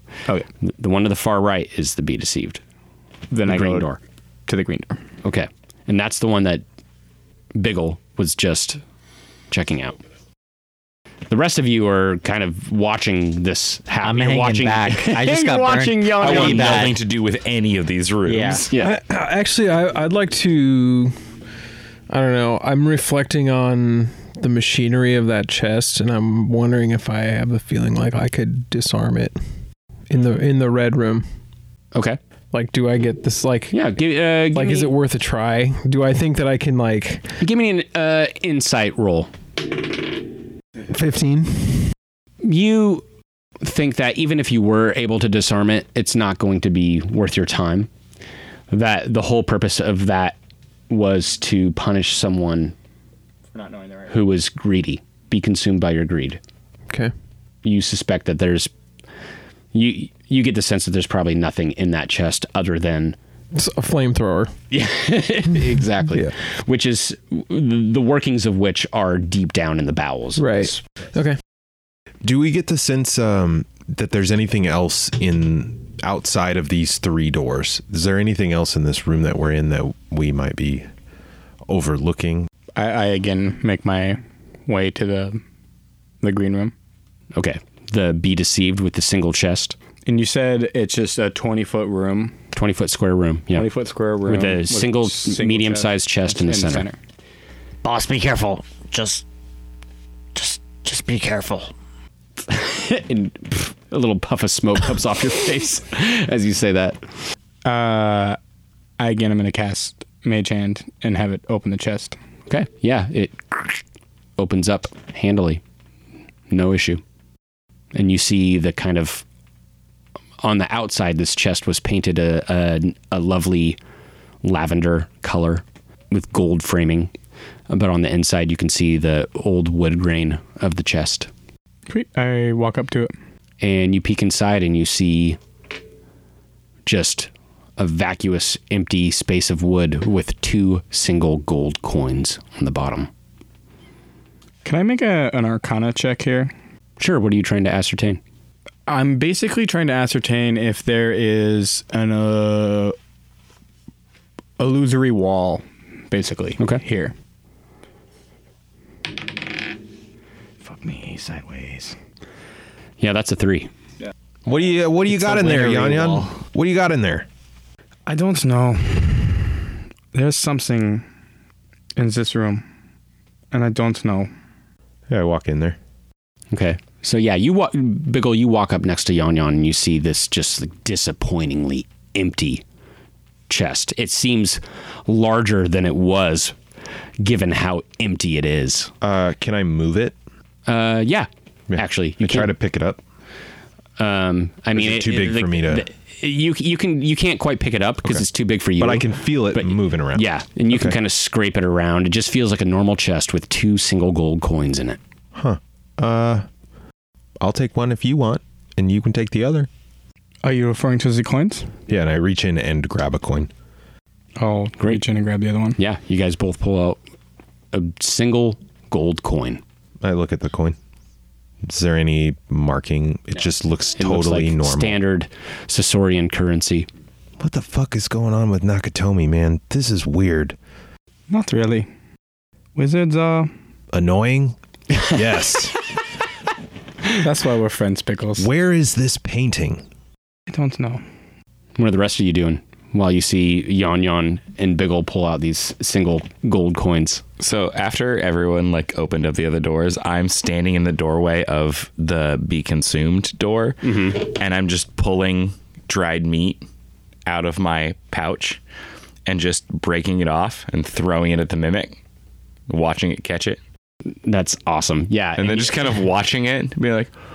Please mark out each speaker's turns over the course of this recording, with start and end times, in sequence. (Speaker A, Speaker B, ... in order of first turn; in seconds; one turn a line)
Speaker A: 0.6-2.6
Speaker B: 3.3-3.9
Speaker A: 3.4-4.0
Speaker B: 4.5-5.0
Speaker A: 5.2-6.6
Speaker A: 7.5-8.8
Speaker A: 9.5-10.0
Speaker A: 11.3-16.9
Speaker C: 14.0-17.0
Speaker D: 16.2-18.7
Speaker C: 18.2-18.7
Speaker A: 18.7-18.9
Speaker E: 18.8-21.1
Speaker E: 22.1-29.4
Speaker E: 30.1-31.2
Speaker A: 31.9-32.2
Speaker E: 32.5-33.7
Speaker A: 33.7-34.9
Speaker E: 34.5-37.3
Speaker A: 37.4-39.3
Speaker E: 40.9-41.9
Speaker A: 42.4-43.0
Speaker A: 43.6-47.9
Speaker A: 48.7-50.4
Speaker A: 50.9-52.7
Speaker B: 53.5-54.2
Speaker A: 54.1-56.4
Speaker A: 57.6-58.7
Speaker A: 59.7-63.1
Speaker E: 63.5-64.5
Speaker A: 64.7-70.8
Speaker E: 70.4-71.4
Speaker F: 72.2-80.9
Speaker F: 81.7-82.5
Speaker B: 82.8-85.4
Speaker B: 86.2-86.7
Speaker A: 87.3-89.7
Speaker B: 90.0-92.3
Speaker A: 92.5-93.7
Speaker B: 93.5-97.0
Speaker A: 94.2-96.9
Speaker C: 97.8-99.2
Speaker C: 100.3-101.7
Speaker A: 102.5-107.0
Speaker B: 107.6-108.4
Speaker B: 109.0-112.2
Speaker A: 112.5-113.8
Speaker A: 114.4-115.6
Speaker A: 116.5-117.0
Speaker A: 117.9-119.2
Speaker A: 120.4-123.8
Speaker A: 124.4-127.1
Speaker A: 127.7-131.3
Speaker B: 131.9-133.1
Speaker A: 133.6-135.4
Speaker A: 136.8-143.1
Speaker B: 144.6-146.5
Speaker A: 147.0-148.2
Speaker B: 148.9-152.9
Speaker B: 154.6-157.1
Speaker B: 160.6-161.9
Speaker A: 163.0-163.7
Speaker F: 164.4-167.3
Speaker C: 165.2-166.1
Speaker B: 168.1-171.0
Speaker B: 171.9-172.6
Speaker B: 173.5-174.3
Speaker F: 175.1-175.8
Speaker A: 176.5-182.6
Speaker A: 183.5-186.5
Speaker A: 187.2-188.9
Speaker F: 189.0-190.2
Speaker A: 190.7-192.5
Speaker F: 191.7-193.0
Speaker A: 194.0-205.0
Speaker F: 194.7-195.8
Speaker F: 198.8-201.0
Speaker F: 205.3-206.4
Speaker F: 207.4-209.7
Speaker B: 210.4-211.7
Speaker F: 211.9-213.5
Speaker B: 214.4-215.8
Speaker A: 215.8-217.0
Speaker A: 217.7-219.6
Speaker F: 220.0-220.8
Speaker F: 221.6-225.0
Speaker A: 224.0-226.9
Speaker F: 227.4-230.6
Speaker B: 231.3-231.9
Speaker B: 232.7-233.5
Speaker F: 233.9-235.7
Speaker B: 237.1-238.5
Speaker F: 238.4-239.8
Speaker B: 240.5-241.0
Speaker A: 241.8-247.2
Speaker D: 247.4-256.6
Speaker A: 253.8-254.2
Speaker D: 257.2-258.6
Speaker D: 259.2-262.0
Speaker D: 262.7-263.6
Speaker A: 264.2-265.8
Speaker D: 265.4-267.1